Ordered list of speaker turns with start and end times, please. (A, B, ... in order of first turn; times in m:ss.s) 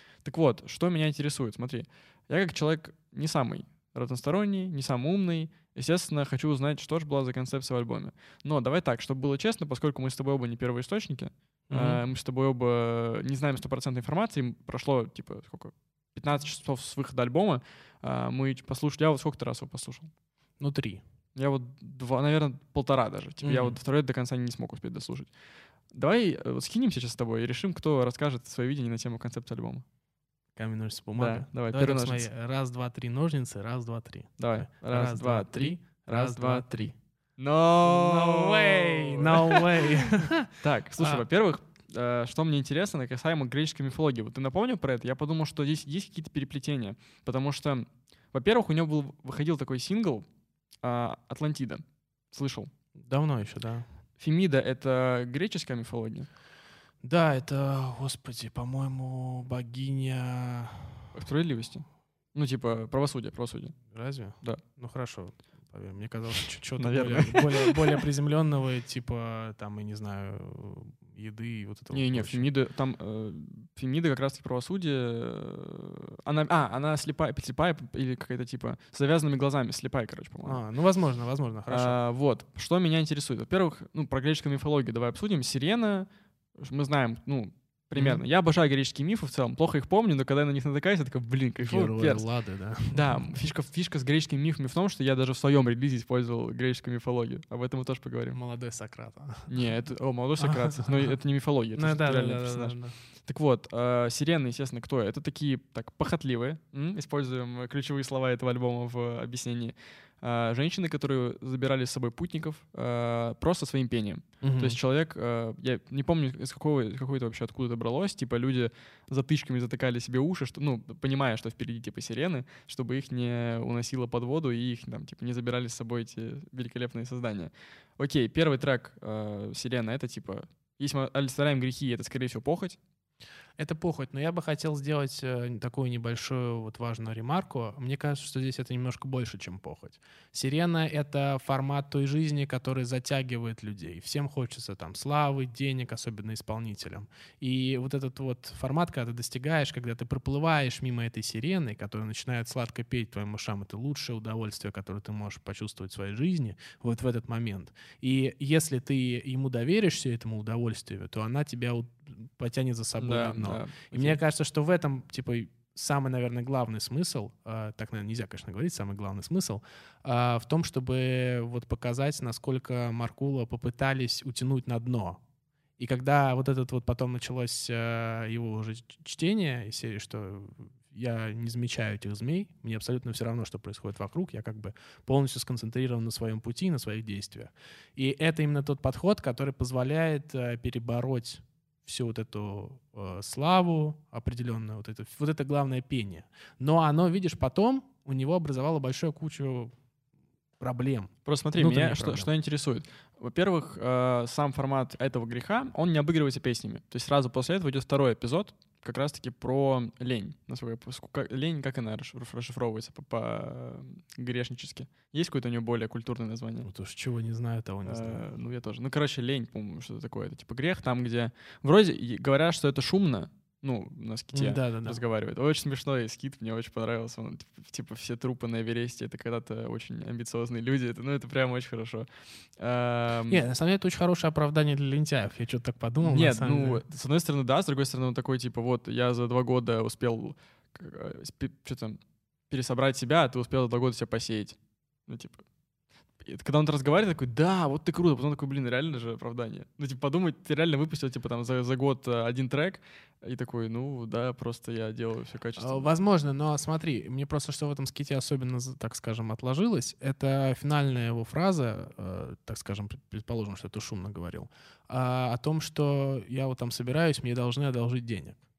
0:00.2-0:20.1 A
0:11.7-0:12.0 B
0:20.6-0:21.0 B
0:21.4-0:25.3 A
0:23.4-0:23.8 B
0:25.9-0:29.8 A
0:30.6-0:37.0 B
0:31.2-0:32.3 A
0:34.4-0:40.1 A
0:37.8-0:41.2 B
0:40.6-0:50.3 A
0:50.8-0:52.7 A
0:53.0-0:53.9 B
0:54.2-0:56.3 A
0:57.0-1:01.1 B
1:01.2-1:03.8 A
1:03.9-1:12.5 B
1:06.8-1:08.0 A
1:11.9-1:20.6 A
1:20.4-1:22.0 B
1:21.7-1:32.2 A
1:28.0-1:28.2 B
1:31.6-1:33.3 B
1:32.9-1:38.4 A
1:38.3-1:39.5 B
1:39.5-2:12.8 A
1:40.4-1:41.2 B
1:41.7-1:43.0 B
1:54.4-1:54.8 B
2:13.6-2:55.2 B
2:43.0-2:44.2 A
2:55.8-3:19.7 B
3:20.6-3:22.3 B
3:21.2-3:36.7 A
3:36.6-3:38.3 B
3:37.8-3:53.4 A
3:44.3-3:45.0 B
3:53.3-3:56.8 B
3:56.0-4:05.4 A
4:06.2-4:15.9 A
4:15.6-4:28.4 B